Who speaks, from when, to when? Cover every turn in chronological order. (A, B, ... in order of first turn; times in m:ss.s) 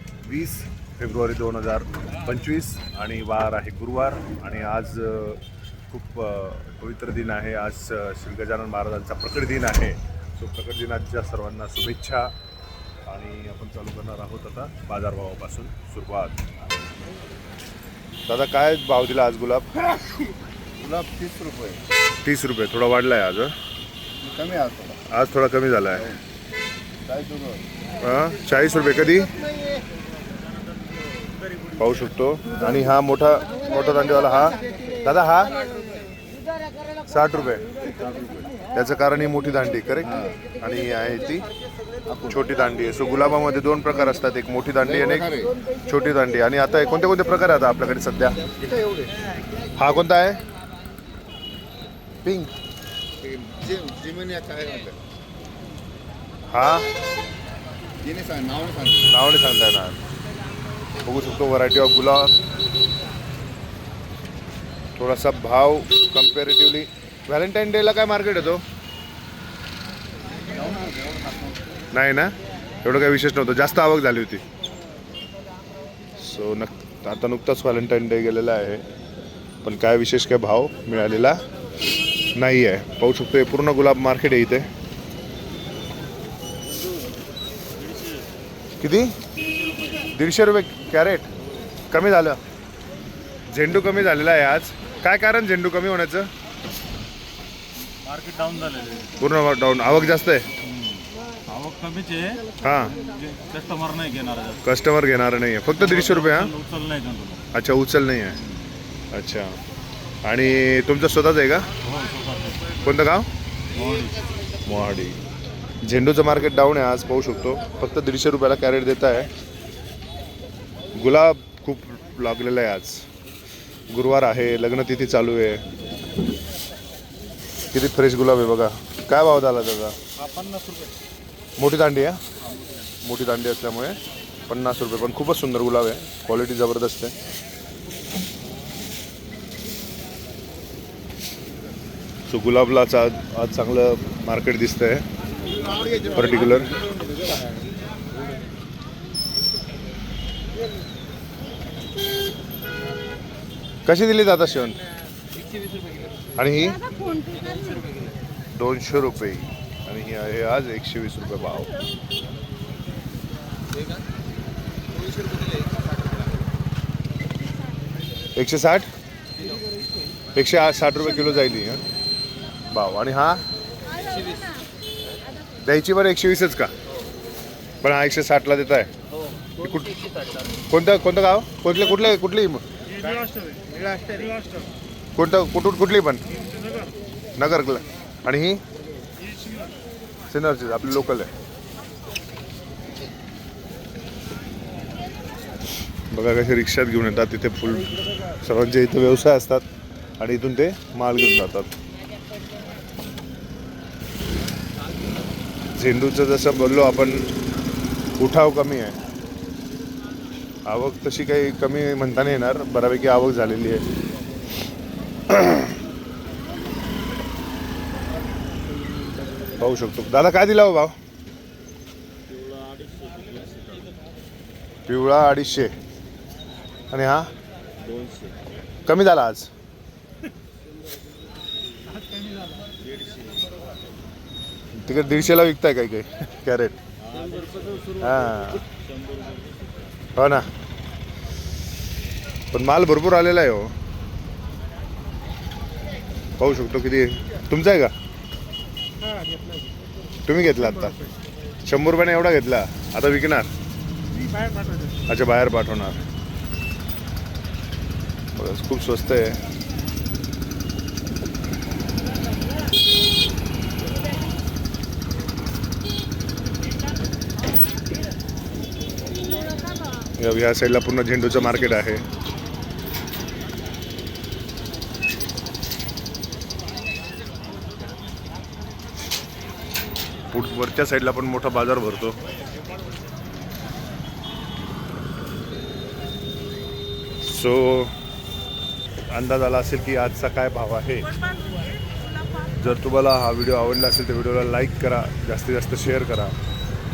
0:00.2-0:12.3 A
0:13.1-0:16.4 A
0:18.3-0:19.8 A
0:20.8-0:21.8 B
0:22.2-0:23.5 A
0:24.2-0:25.0 B
0:25.1-0:26.1 A
0:27.0-0:27.6 B
0:28.0-0:29.3 A
0:31.8-0:35.5 A
0:37.1-0:37.6 A
0:38.1-0:38.5 B
0:38.7-0:41.4 A
0:40.0-0:40.4 B
0:42.3-0:45.3 A
0:44.8-0:45.5 B
0:45.8-0:48.4 A
0:48.5-0:49.1 B
0:49.8-0:50.4 A
0:52.2-0:52.5 A
0:53.2-0:55.0 B
0:56.5-0:56.9 A
0:58.0-0:59.1 B
0:59.1-1:00.0 A
1:01.0-1:02.3 A
1:05.0-1:08.6 A
1:10.5-1:11.6 B
1:11.9-1:12.3 A
1:12.8-1:14.4 A
1:16.2-1:18.8 A
1:19.6-1:21.4 A
1:22.4-1:24.7 A
1:27.9-1:28.2 C
1:28.8-1:29.2 A
1:30.0-1:31.3 A
1:31.9-1:32.4 A
1:33.5-1:36.3 A
1:38.0-1:39.2 C
1:39.2-1:40.5 A
1:40.9-1:44.6 C
1:42.6-1:43.0 A
1:44.6-1:46.6 A
1:46.0-1:47.4 C
1:47.5-1:48.4 A
1:49.1-1:49.6 A
1:50.2-1:51.7 A
1:51.9-1:52.6 C
1:52.8-1:53.3 A
1:53.7-1:54.2 C
1:54.6-1:55.2 A
1:55.8-1:59.3 A
2:00.9-2:03.1 A
2:03.9-2:05.6 A
2:07.7-2:10.0 A
2:10.2-2:10.9 C
2:11.6-2:12.2 A
2:13.0-2:14.0 A
2:14.5-2:17.1 A
2:22.3-2:25.0 A
2:26.0-2:26.8 A
2:33.8-2:34.8 A
2:36.3-2:36.8 A
2:38.5-2:41.7 A
2:48.4-2:48.9 A
2:50.3-2:51.8 A
2:52.7-2:53.4 A
2:55.6-2:56.7 A
2:57.8-2:58.9 A
2:59.6-3:00.0 A
3:00.7-3:02.6 A
3:03.0-3:04.6 C
3:05.2-3:06.3 A
3:07.4-3:08.6 A
3:10.3-3:11.3 A
3:16.1-3:19.6 A
3:20.2-3:21.7 A
3:25.7-3:27.2 A
3:28.2-3:29.0 A
3:30.6-3:33.9 A
3:35.3-3:35.8 A
3:39.6-3:40.9 A
3:42.3-3:43.8 C
3:44.9-3:45.7 A
3:46.9-3:47.3 A
3:47.8-3:48.3 C
3:48.9-3:49.5 A
3:52.8-3:53.4 C
3:54.8-3:56.8 A
3:57.1-3:59.6 C
3:58.0-3:58.6 A
4:00.2-4:00.5 A
4:02.5-4:03.7 A
4:06.4-4:07.9 A
4:10.2-4:11.0 A
4:11.6-4:13.5 A
4:15.1-4:16.0 A
4:18.3-4:19.4 A
4:30.2-4:32.0 A
4:40.3-4:42.2 A
4:47.2-4:47.9 A
4:49.1-4:51.1 A
4:52.6-4:56.4 A